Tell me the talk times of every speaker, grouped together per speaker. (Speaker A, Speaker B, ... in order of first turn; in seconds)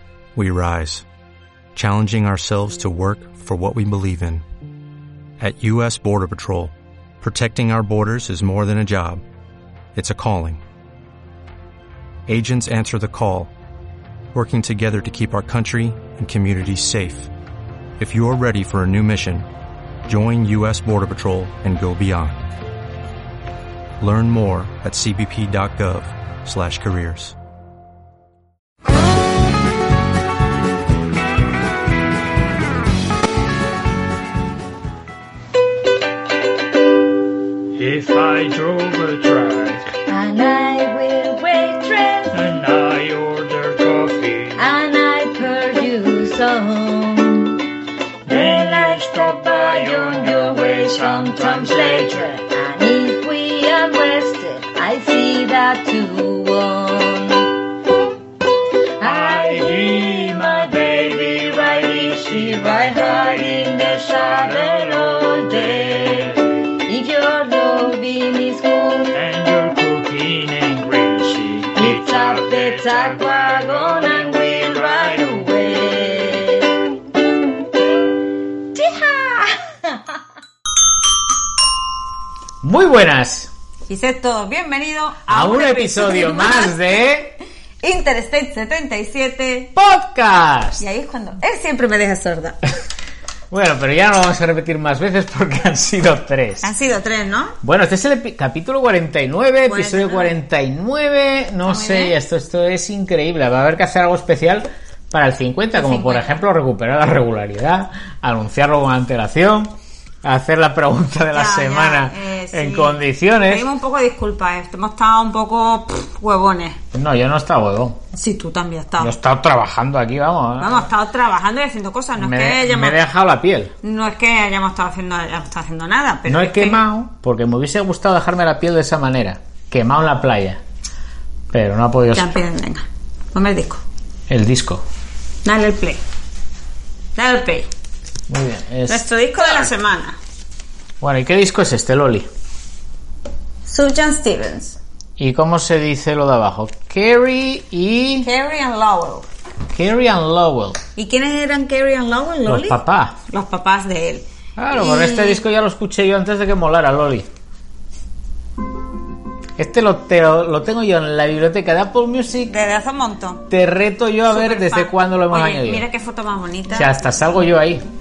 Speaker A: 0.3-1.0, 1.7-4.4, 5.4-9.2, 9.9-10.6, 12.3-13.5, 14.3-17.3, 18.0-19.5, 20.1-22.4, 24.0-27.3
Speaker B: 37.7-39.9, 42.3-44.6, 48.3-52.2, 59.0-66.4, 69.1-75.2
Speaker C: 40.1-42.5, 44.5-47.6, 48.2-57.5, 59.0-69.2, 71.7-76.7, 78.8-79.9
Speaker D: 82.6-83.5, 85.3-87.3, 89.8-90.8, 93.5-96.7, 97.6-113.7, 116.9-118.0, 119.0-120.9, 122.2-123.7, 126.3-130.6, 131.5-132.3, 134.3-134.8, 138.3-139.7, 141.0-142.3, 145.2-148.3, 149.7-150.8, 152.4-153.2, 154.6-157.3, 159.6-162.6, 163.5-165.8, 166.7-167.8
Speaker E: 83.9-86.8, 87.8-89.7, 90.8-92.6, 96.6-97.6, 99.7-100.3, 101.6-102.1, 105.7-106.4, 111.3-116.8, 118.1-119.1, 120.6-123.0, 123.8-126.8, 132.1-133.8, 135.4-136.0, 137.2-137.7, 138.9-140.2, 143.7-144.8, 148.2-149.2, 150.9-155.4, 162.5-163.5, 164.3-166.9